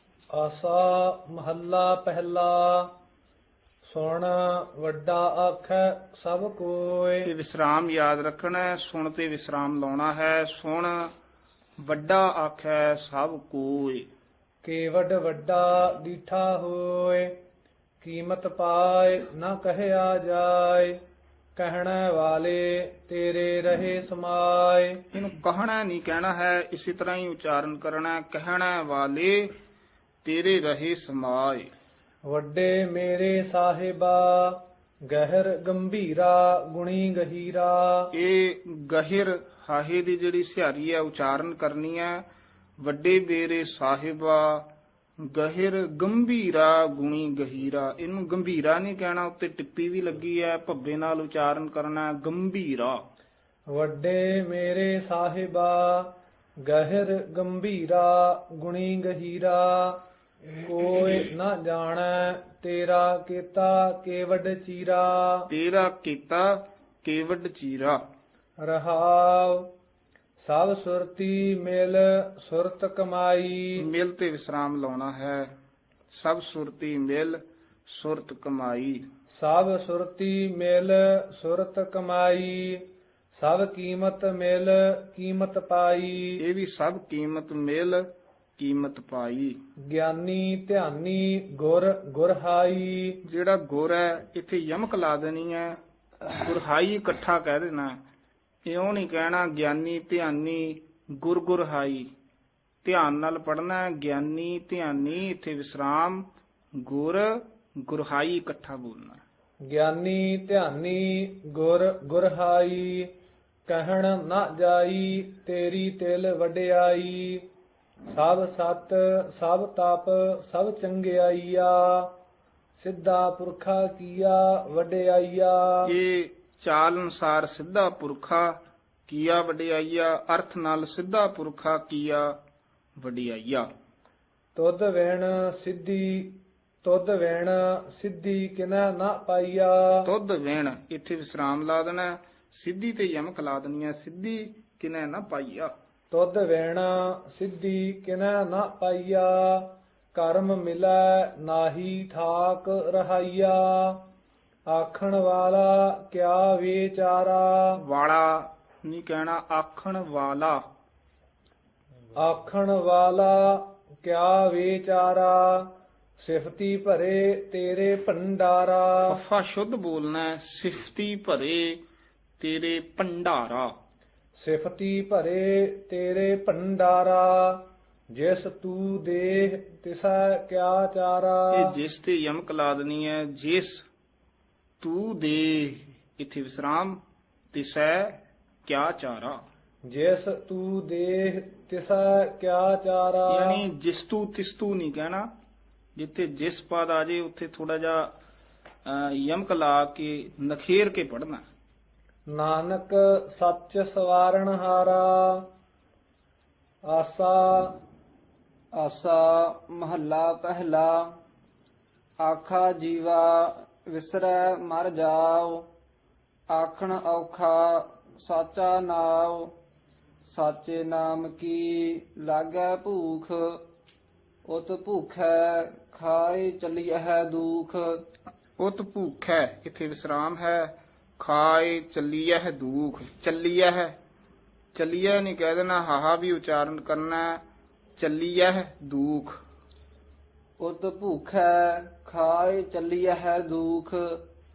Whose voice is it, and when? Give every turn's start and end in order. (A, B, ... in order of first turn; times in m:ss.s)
0:00.3-0:02.9 A
0:03.9-0:07.3 A
0:07.2-0:11.1 B
0:11.8-0:14.1 B
0:14.6-0:17.3 A
0:18.0-0:21.0 A
0:21.6-0:25.0 A
0:25.1-0:29.5 B
0:30.2-0:31.7 B
0:32.2-0:38.1 A
0:38.1-0:42.2 B
0:42.8-0:44.7 B
0:45.3-0:53.0 B
0:53.7-0:56.1 A
0:56.6-1:00.0 A
1:00.6-1:05.5 A
1:05.5-1:08.0 B
1:08.6-1:09.7 A
1:10.4-1:13.8 A
1:13.8-1:15.5 B
1:16.1-1:19.1 B
1:19.4-1:22.8 A
1:23.4-1:26.4 A
1:26.4-1:28.1 B
1:28.6-1:29.6 B
1:29.9-1:33.2 A
1:33.2-1:35.8 B
1:36.4-1:38.0 B
1:38.7-1:42.1 B
1:42.8-1:46.3 B
1:46.8-1:49.2 B
1:49.7-1:53.1 A
1:53.7-1:57.4 A
1:58.1-2:02.1 A
2:02.8-2:05.9 A
2:05.9-2:12.4 B
2:13.0-2:13.7 B
2:14.6-2:20.1 A
2:20.0-2:25.7 B
2:26.1-2:34.0 A
2:34.7-2:37.8 A
2:37.8-2:40.6 B
2:42.2-2:45.7 A
2:46.2-2:49.2 A
2:49.1-2:51.8 B
2:52.4-2:53.8 B
2:54.4-3:01.8 A
3:01.5-3:03.8 B
3:04.8-3:07.0 B
3:07.5-3:09.4 B
3:09.8-3:13.6 A
3:13.3-3:15.3 B
3:16.0-3:18.1 B
3:18.9-3:21.4 B
3:22.3-3:25.4 A
3:26.8-3:27.7 A
3:28.8-3:31.2 C
3:32.2-3:35.7 C
3:36.5-3:39.5 C
3:40.3-3:43.6 C
3:44.5-3:48.0 C
3:48.6-3:54.0 B
3:54.8-3:57.4 B
3:58.0-3:59.4 B
4:00.6-4:04.2 C